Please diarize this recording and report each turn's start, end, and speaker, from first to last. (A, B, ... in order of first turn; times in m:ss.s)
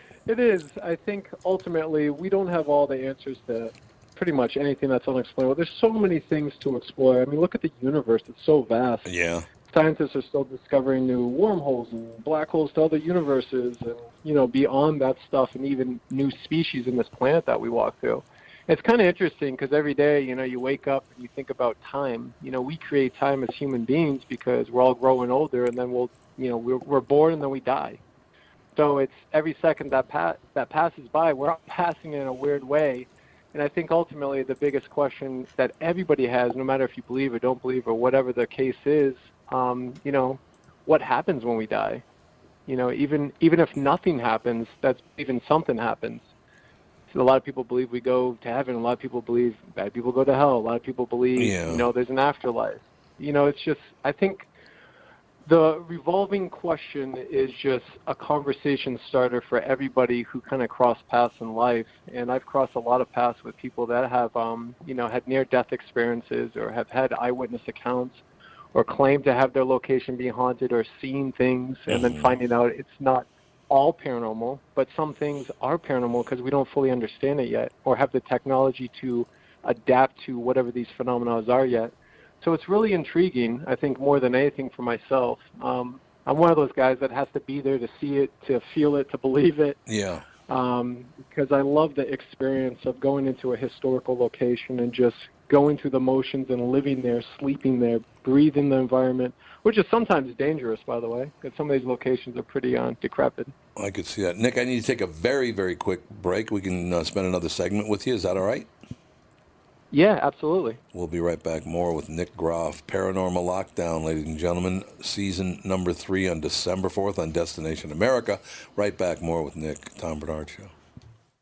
0:00.3-0:09.1 A
0:09.0-0:09.5 B
0:09.7-0:28.0 A
0:28.8-0:42.0 A
0:42.7-0:46.3 A
0:47.1-0:54.5 A
0:51.4-0:51.9 B
0:55.5-1:08.2 A
1:08.7-1:29.8 A
1:11.9-1:12.3 B
1:29.9-1:30.3 B
1:30.5-1:43.5 A
1:43.8-1:48.7 B
1:49.9-1:50.8 A
1:50.9-2:00.7 B